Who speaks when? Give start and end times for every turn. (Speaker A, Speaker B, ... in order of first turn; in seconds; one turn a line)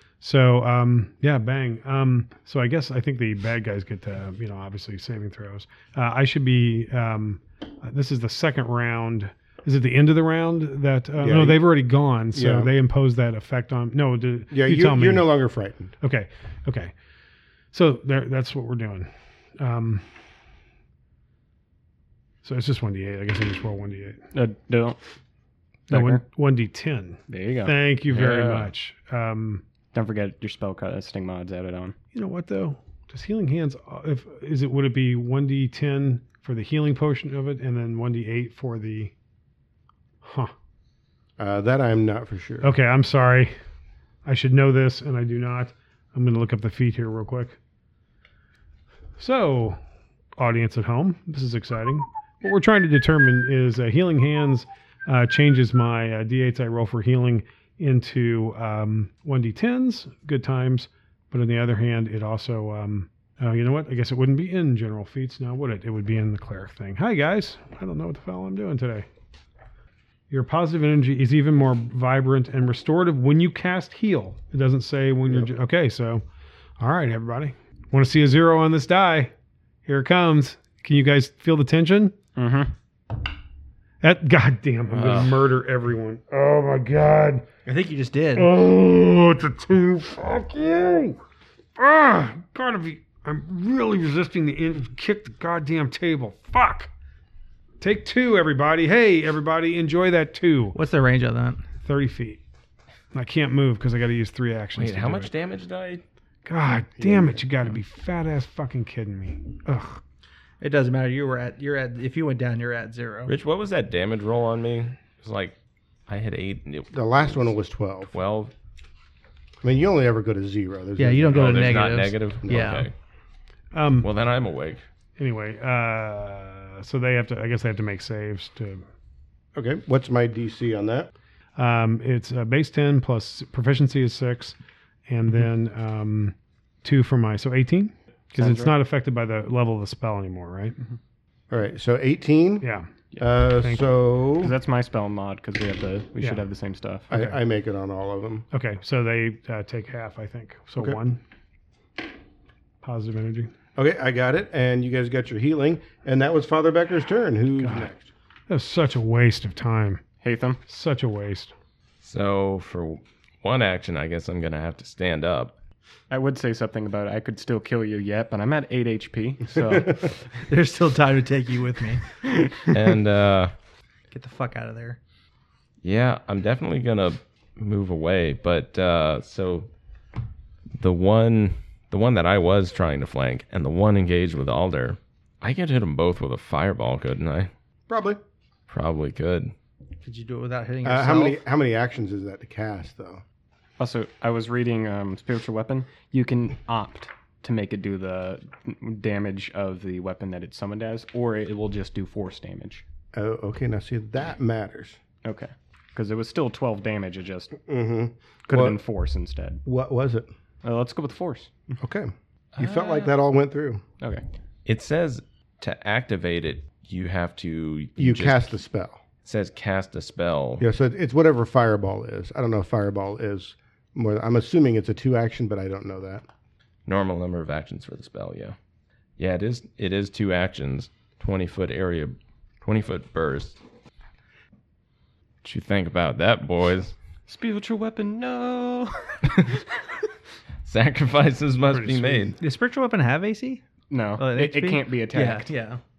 Speaker A: 0.2-15.3
Speaker B: 11.2-11.6
Speaker B: 12.3-12.7
Speaker B: 14.5-15.9
Speaker A: 16.0-16.9
Speaker A: 17.7-20.1
Speaker A: 22.4-24.2
Speaker C: 24.3-25.0
Speaker A: 25.9-29.6
Speaker C: 25.9-26.2
Speaker C: 27.3-28.6
Speaker C: 29.9-31.9
Speaker A: 32.1-39.1
Speaker A: 40.2-40.5
Speaker B: 41.4-42.7
Speaker A: 42.6-43.5
Speaker A: 44.2-47.6
Speaker A: 49.2-49.8
Speaker A: 50.4-69.0
Speaker A: 70.3-76.2
Speaker A: 76.8-79.3
Speaker A: 79.8-82.1
Speaker C: 82.3-82.7
Speaker A: 84.0-87.5
Speaker D: 84.9-85.4
Speaker E: 87.7-88.5
Speaker A: 88.3-91.2
Speaker A: 91.8-96.9
Speaker A: 97.8-100.8
Speaker E: 100.7-101.6
Speaker A: 101.8-102.4
Speaker A: 103.1-105.3
Speaker D: 104.8-106.0
Speaker A: 106.5-110.0
Speaker B: 107.0-107.4
Speaker E: 110.6-113.3
Speaker D: 113.3-115.5
Speaker D: 116.1-117.5
Speaker B: 116.9-118.1
Speaker D: 118.1-118.5
Speaker B: 119.6-121.5
Speaker E: 121.0-122.9
Speaker D: 121.3-122.9
Speaker A: 123.7-124.1
Speaker D: 124.0-124.8
Speaker A: 125.2-128.8
Speaker B: 129.6-131.1
Speaker A: 131.6-134.6
Speaker A: 135.1-140.7
Speaker C: 138.3-138.7
Speaker B: 141.5-142.7
Speaker A: 142.6-142.9
Speaker B: 143.2-144.5
Speaker A: 143.6-143.9
Speaker C: 144.4-147.1
Speaker A: 147.1-147.3
Speaker B: 147.1-148.4
Speaker A: 148.5-151.2
Speaker A: 152.8-153.5
Speaker B: 153.8-158.1
Speaker A: 157.6-157.9
Speaker A: 158.5-160.0
Speaker C: 160.2-160.6
Speaker A: 160.7-161.5
Speaker D: 162.0-165.5
Speaker C: 166.1-170.2
Speaker E: 170.5-172.1
Speaker C: 172.2-172.5
Speaker D: 172.7-173.5
Speaker E: 174.1-175.0
Speaker D: 175.8-179.7
Speaker D: 180.8-187.5
Speaker B: 187.9-188.2
Speaker D: 188.7-189.5
Speaker E: 190.0-191.4
Speaker B: 190.8-193.2
Speaker C: 193.8-202.8
Speaker B: 203.1-205.0
Speaker C: 205.2-207.5
Speaker B: 207.7-208.8
Speaker C: 208.5-209.6
Speaker B: 209.6-210.3
Speaker C: 210.6-211.5
Speaker B: 211.8-213.8
Speaker D: 212.6-213.1
Speaker D: 214.7-218.6
Speaker B: 218.0-219.0
Speaker D: 219.2-220.6
Speaker B: 220.6-226.2
Speaker D: 226.8-228.6
Speaker D: 229.2-233.6
Speaker D: 235.4-236.9
Speaker C: 237.3-239.2
Speaker D: 240.6-242.3
Speaker A: 241.7-242.3
Speaker E: 242.4-243.6
Speaker C: 243.9-245.5
Speaker E: 244.2-245.8